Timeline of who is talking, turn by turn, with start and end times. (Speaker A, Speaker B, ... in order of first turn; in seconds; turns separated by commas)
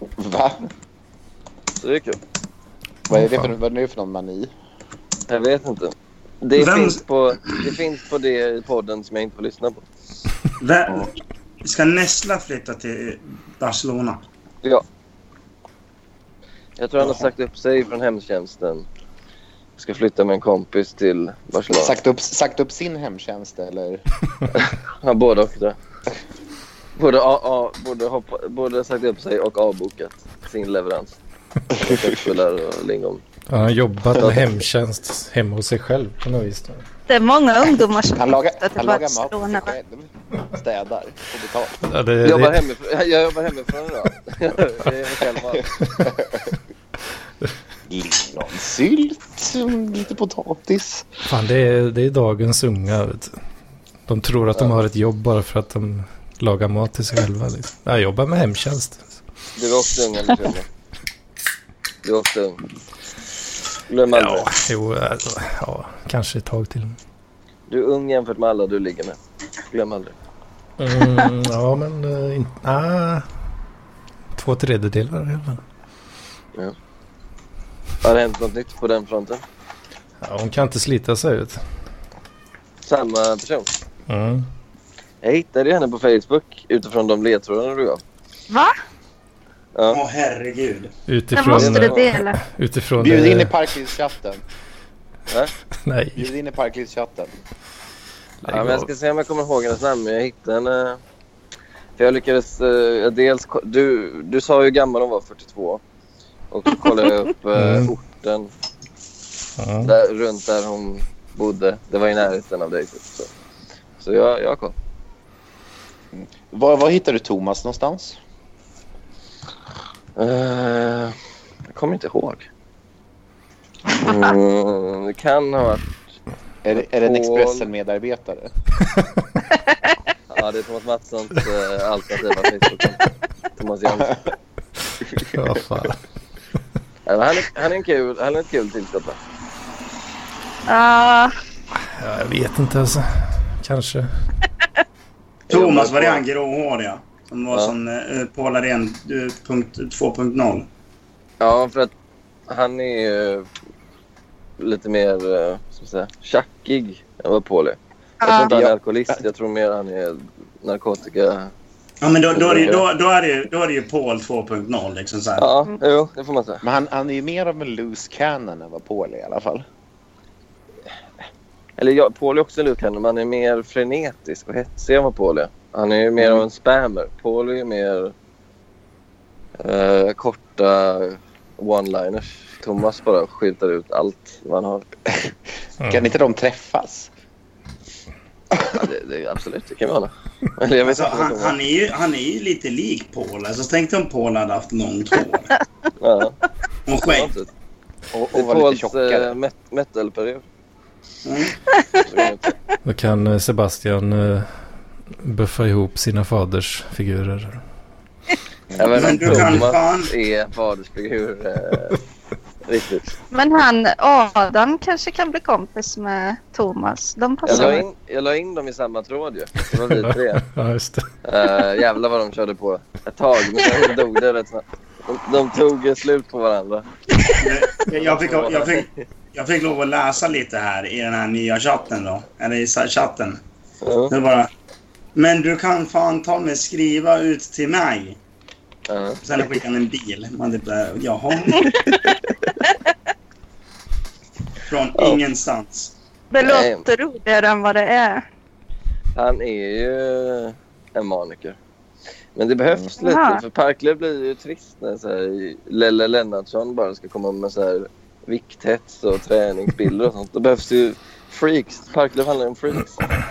Speaker A: 0.2-0.6, Speaker B: 1.8-2.2, Speaker A: 3.1-4.5, Speaker B: 5.3-9.8, Speaker C: 6.5-7.7, Speaker C: 10.6-14.2, Speaker B: 16.8-18.9, Speaker C: 17.0-17.3, Speaker B: 19.8-21.9, Speaker A: 21.7-24.0, Speaker B: 24.5-25.8, Speaker B: 27.0-31.2, Speaker B: 31.7-33.2, Speaker A: 31.8-32.1, Speaker D: 33.5-36.8, Speaker B: 34.2-34.5, Speaker E: 37.1-39.7, Speaker A: 38.1-41.8, Speaker D: 41.9-42.7, Speaker B: 42.2-45.7, Speaker A: 46.0-46.5, Speaker A: 47.9-51.1, Speaker D: 51.3-53.4, Speaker D: 54.1-59.2, Speaker B: 59.6-60.7, Speaker B: 62.0-62.6, Speaker B: 63.9-64.5, Speaker D: 64.1-67.0, Speaker B: 67.7-69.2, Speaker B: 69.7-70.1, Speaker D: 70.8-73.3, Speaker D: 74.4-75.6, Speaker B: 78.0-79.4, Speaker D: 80.2-81.6, Speaker B: 82.8-83.7, Speaker D: 84.1-84.5, Speaker B: 85.2-88.0, Speaker B: 89.8-90.0, Speaker C: 89.9-90.9, Speaker D: 91.1-93.5, Speaker E: 91.3-92.4, Speaker B: 91.5-92.1, Speaker A: 93.0-94.4, Speaker D: 95.8-96.2, Speaker A: 96.2-97.3, Speaker D: 98.4-98.9, Speaker B: 98.5-101.0, Speaker B: 102.0-105.8, Speaker B: 106.5-108.5, Speaker D: 107.5-107.9, Speaker D: 109.6-109.9, Speaker B: 109.8-113.3, Speaker B: 114.0-114.8, Speaker A: 116.1-118.2, Speaker B: 120.2-121.1, Speaker B: 121.7-122.5, Speaker B: 124.0-125.9, Speaker A: 126.6-128.5, Speaker B: 126.7-127.7, Speaker E: 129.5-130.0, Speaker B: 130.3-133.0, Speaker B: 133.6-134.3, Speaker D: 135.2-136.0, Speaker B: 137.1-139.2, Speaker E: 140.7-141.3, Speaker D: 142.0-144.1, Speaker B: 145.5-146.2, Speaker C: 145.5-150.7, Speaker B: 151.4-151.9, Speaker B: 152.5-153.5, Speaker B: 154.6-161.5, Speaker E: 158.2-158.5, Speaker A: 158.5-159.2, Speaker C: 162.0-165.5, Speaker B: 162.3-162.8, Speaker B: 165.4-166.6, Speaker A: 166.6-169.6, Speaker B: 171.8-178.1, Speaker B: 179.6-184.8, Speaker A: 185.9-187.1, Speaker B: 188.7-191.6, Speaker C: 190.8-195.5, Speaker B: 196.0-196.4, Speaker C: 196.9-197.3, Speaker B: 197.0-197.5, Speaker A: 198.1-199.4, Speaker B: 198.3-200.4, Speaker C: 201.2-201.6, Speaker B: 202.1-202.5, Speaker D: 202.8-204.5, Speaker D: 205.1-207.6, Speaker A: 208.7-209.0, Speaker B: 208.8-212.0, Speaker C: 208.9-210.1, Speaker D: 209.3-209.6, Speaker B: 212.7-213.2, Speaker E: 213.3-217.8, Speaker B: 217.5-220.4, Speaker D: 219.9-221.1, Speaker B: 221.2-226.9, Speaker C: 227.4-233.4, Speaker B: 227.8-229.0, Speaker B: 233.8-234.1, Speaker C: 234.1-234.5, Speaker C: 235.2-238.2, Speaker B: 238.9-239.2, Speaker C: 239.2-241.8, Speaker E: 241.6-242.9, Speaker C: 244.7-245.9, Speaker B: 245.0-245.2, Speaker E: 246.3-248.2, Speaker B: 246.4-246.8, Speaker B: 249.1-251.6, Speaker B: 252.3-263.0, Speaker E: 253.0-253.4